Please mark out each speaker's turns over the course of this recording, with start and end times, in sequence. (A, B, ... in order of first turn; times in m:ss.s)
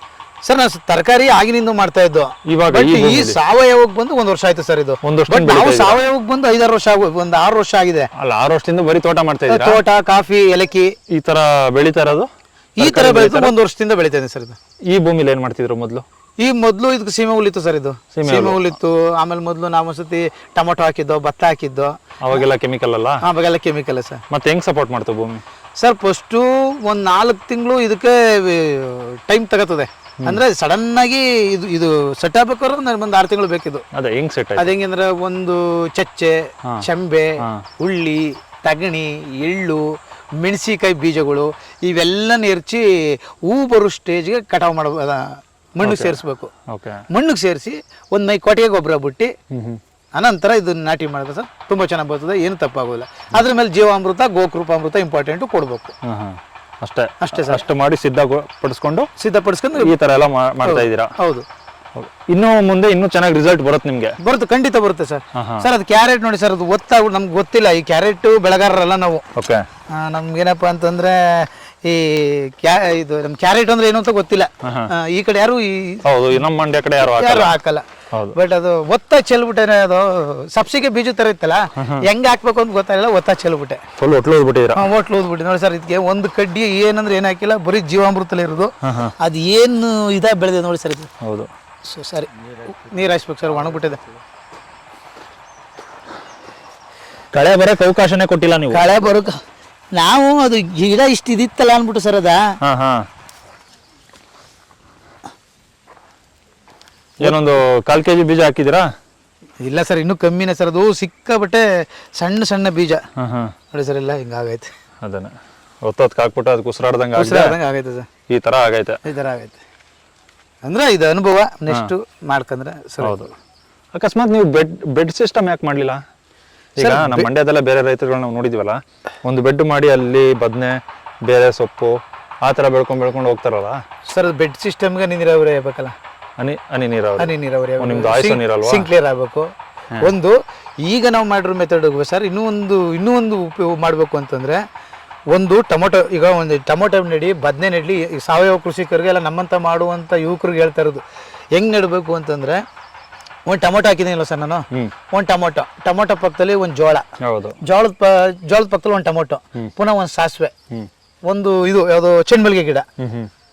0:00.4-0:08.1 A
0:02.4-0:03.4 B
0:05.0-0:06.0 B
0:08.1-0:09.8 B
0:09.5-0:10.9 A
0:11.1-0:12.3 B
0:12.8-0:14.6 A
0:12.8-0:13.5 B
0:14.9-0:16.0 B
0:16.4-0:22.4 A
0:18.1-0:18.7 B
0:22.2-0:23.2 B
0:23.2-0:24.2 A
0:24.3-0:25.4 B
0:25.8-0:33.8 A
0:33.9-0:34.7 B
0:34.6-0:39.8 A
0:37.4-0:37.6 B
0:40.4-0:46.5 A
0:45.8-0:47.0 B
0:47.1-0:49.3 A
0:49.5-0:49.8 B
0:50.1-0:55.9 A
0:56.0-0:59.1 B
0:57.2-0:57.6 A
0:59.2-0:59.9 A
0:59.8-1:01.1 B
1:00.6-1:01.4 A
1:02.0-1:04.2 B
1:04.2-1:09.2 A
1:05.3-1:05.6 B
1:09.3-1:09.6 B
1:09.9-1:16.0 A
1:14.6-1:14.9 B
1:16.0-1:17.6 B
1:17.0-1:23.8 A
1:21.8-1:22.0 B
1:24.0-1:24.8 B
1:24.7-1:31.1 A
1:28.8-1:29.1 B
1:31.2-1:31.5 B
1:31.9-1:34.0 A
1:37.3-1:38.8 B
1:38.7-1:39.4 A
1:39.9-1:42.4 A
1:42.6-1:43.0 B
1:47.2-1:48.9 B
1:49.6-1:53.0 A
1:53.2-1:53.5 B
1:53.7-1:54.7 A
1:55.0-1:57.6 B
1:57.2-1:58.1 A
1:58.3-1:59.0 B
1:59.0-1:59.6 A
2:00.6-2:03.3 A
2:03.0-2:03.3 B
2:03.9-2:06.0 B
2:06.8-2:13.8 B
2:06.8-2:07.3 A
2:14.1-2:15.9 A
2:16.4-2:18.9 B
2:17.2-2:24.6 A
2:25.3-2:31.0 A
2:31.6-2:32.6 A
2:33.5-2:37.0 A
2:37.2-2:37.6 B
2:37.6-2:40.5 A
2:41.3-2:42.8 A
2:43.0-2:43.3 B